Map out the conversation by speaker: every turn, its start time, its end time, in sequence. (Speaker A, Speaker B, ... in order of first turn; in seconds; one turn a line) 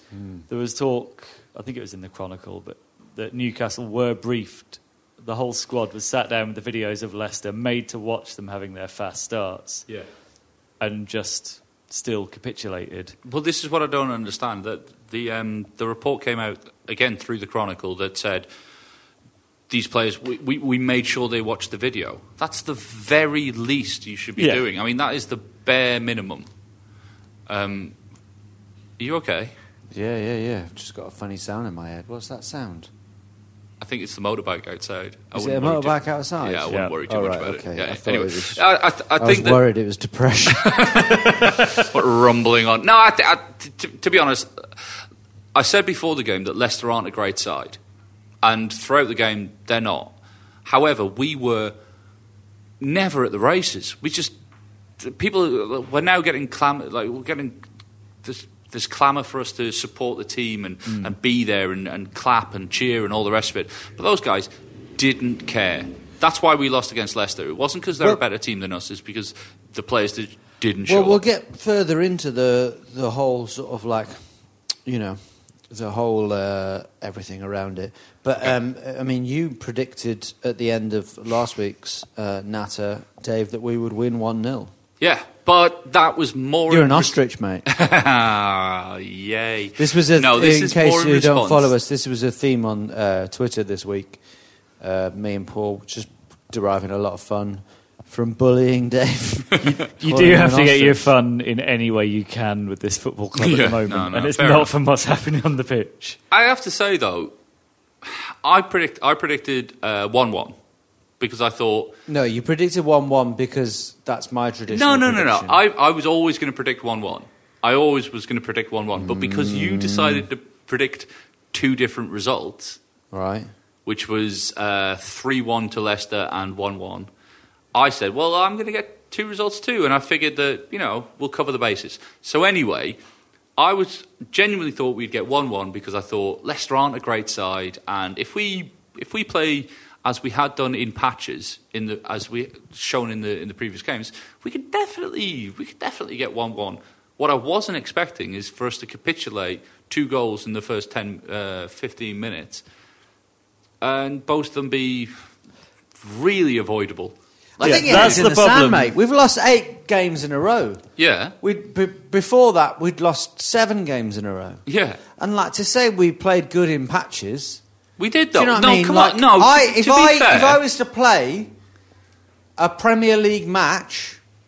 Speaker A: 0.1-0.5
Speaker B: 0.5-9.8
Speaker B: 10.8-13.1
Speaker C: 13.2-18.5
Speaker C: 19.7-26.5
Speaker B: 24.4-24.6
Speaker C: 27.5-27.9
Speaker C: 29.0-29.5
Speaker A: 29.9-32.9
Speaker C: 33.8-39.6
Speaker A: 35.3-38.6
Speaker B: 36.7-36.9
Speaker A: 39.2-41.5
Speaker C: 40.6-44.7
Speaker C: 45.5-47.8
Speaker C: 48.4-51.7
Speaker C: 52.8-54.3
Speaker C: 55.0-57.6
Speaker C: 58.2-71.2
Speaker B: 60.9-61.1
Speaker A: 70.8-74.2
Speaker A: 74.8-84.7
Speaker C: 85.0-87.2
Speaker A: 86.7-87.7
Speaker C: 87.7-91.7
Speaker A: 89.8-94.2
Speaker A: 94.8-101.1
Speaker B: 99.6-106.2
Speaker C: 103.3-104.7
Speaker C: 106.3-107.3
Speaker C: 108.0-110.5
Speaker C: 111.2-112.0
Speaker A: 112.1-115.6
Speaker C: 114.7-122.8
Speaker A: 118.9-120.3
Speaker A: 123.1-123.5
Speaker C: 123.8-127.1
Speaker C: 127.7-133.0
Speaker C: 133.6-152.6
Speaker C: 153.8-155.1
Speaker C: 156.0-158.2
Speaker A: 157.6-160.8
Speaker B: 157.6-158.9
Speaker C: 161.0-161.3
Speaker A: 161.4-164.6
Speaker C: 164.7-165.0
Speaker A: 165.2-167.6
Speaker C: 168.0-170.6
Speaker A: 168.3-171.5
Speaker A: 172.6-174.2